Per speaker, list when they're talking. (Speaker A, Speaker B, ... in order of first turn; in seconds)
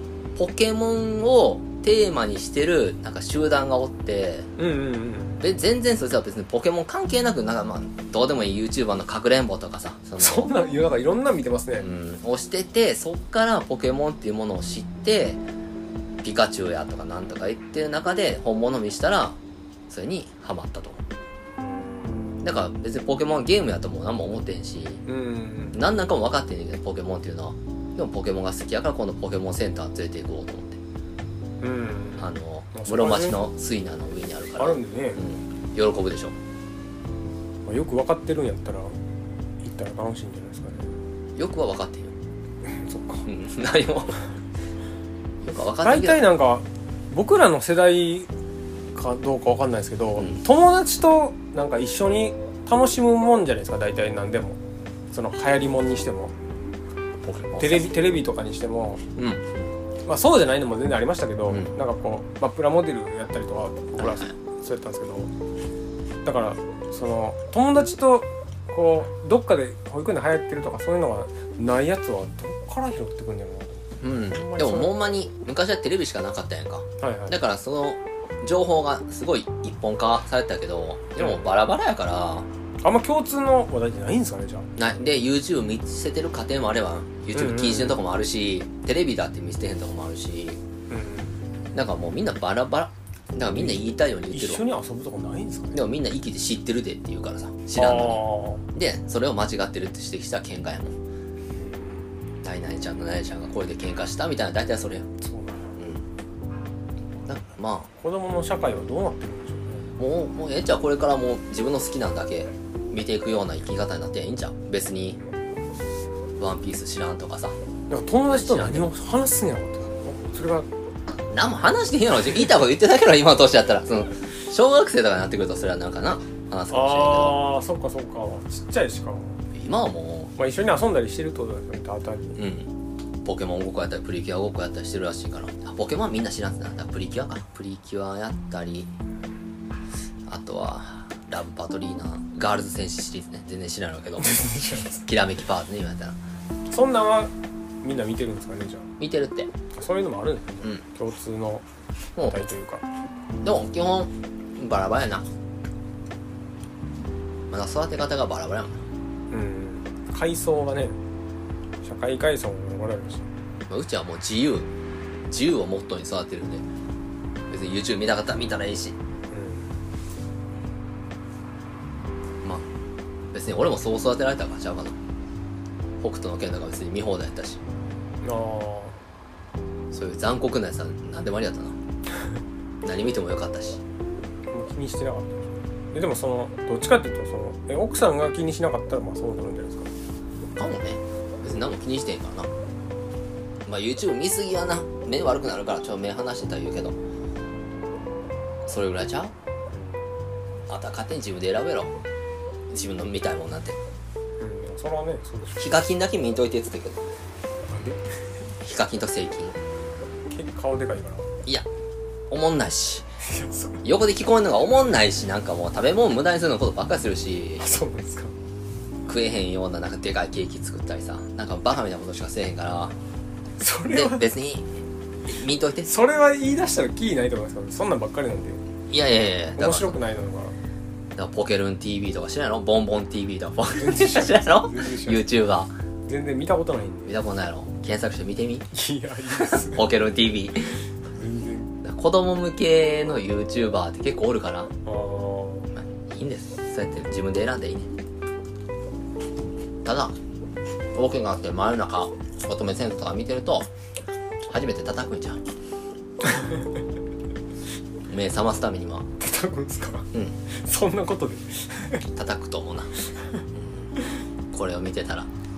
Speaker A: 0.3-4.5, 5.4-10.5, 11.8-15.4, 16.2-19.4, 19.9-21.0, 22.4-25.0, 25.7-30.8, 32.2-36.4, 41.4-42.1, 43.2-44.2, 45.4-46.2, 50.2-50.4, 57.2-57.9, 59.1-59.7, 61.5-61.7, 64.0-64.3, 74.0-82.5, 84.8-90.6, 91.7-94.7, 95.7-101.0, 102.4-105.1, 105.8-106.0, 107.2-107.9, 110.0-115.2, 116.4-117.5, 118.3-118.9, 121.3-127.5, 129.5-130.3, 132.3-132.7, 133.2-138.9, 140.3-144.5, 145.0-146.2, 149.0-149.5, 152.2-152.4, 153.4-155.3, 157.5-158.8, 163.7-164.7, 165.3-166.7, 167.5-168.9, 173.3-175.0, 176.0-177.6, 179.9-181.8, 182.8-183.8, 190.6-192.5, 193.7-197.0, 198.7-199.3, 200.7-201.9, 202.7-203.8, 205.6-207.0, 208.6-209.6, 212.3-213.1, 213.8-217.7, 219.1-223.0, 223.8-225.9, 228.9-230.0, 231.2-235.7, 237.1-238.7, 239.3-240.7, 241.8-244.7, 245.8-247.9, 249.8-250.1, 250.9-253.7, 254.5-255.4, 258.1-259.1, 262.1-262.9, 263.5-263.9, 264.5-265.3
Speaker B: 4.6-5.4, 10.2-11.9, 21.6-22.4, 25.1-25.8, 31.6-33.5, 34.6-35.2, 37.6-39.0, 39.6-41.0, 42.6-43.2, 45.8-48.3, 48.9-54.6, 55.1-56.3, 57.6-59.0, 60.0-65.3, 66.2-74.9, 77.0-77.4, 81.2-81.5, 82.8-84.7, 87.3-88.0, 90.9-91.5, 93.5-95.8, 97.8-98.6, 101.5-102.1, 105.2-105.7, 108.0-109.9, 117.9-120.7, 126.7-129.4, 130.4-132.4, 144.2-145.0, 146.7-148.9, 149.7-151.7, 152.2-152.8, 159.3-161.0, 161.8-163.3, 169.3-169.8, 178.2-179.0, 184.5-185.3, 185.9-189.9, 199.7-200.1, 204.4-205.8, 207.7-208.0, 210.3-211.3, 213.2-213.8, 217.6-218.3, 223.6-224.3, 225.8-228.6, 229.6-230.6, 233.7-235.2, 236.1-237.1, 238.7-239.9, 241.1-241.7, 244.8-245.7, 259.2-262.1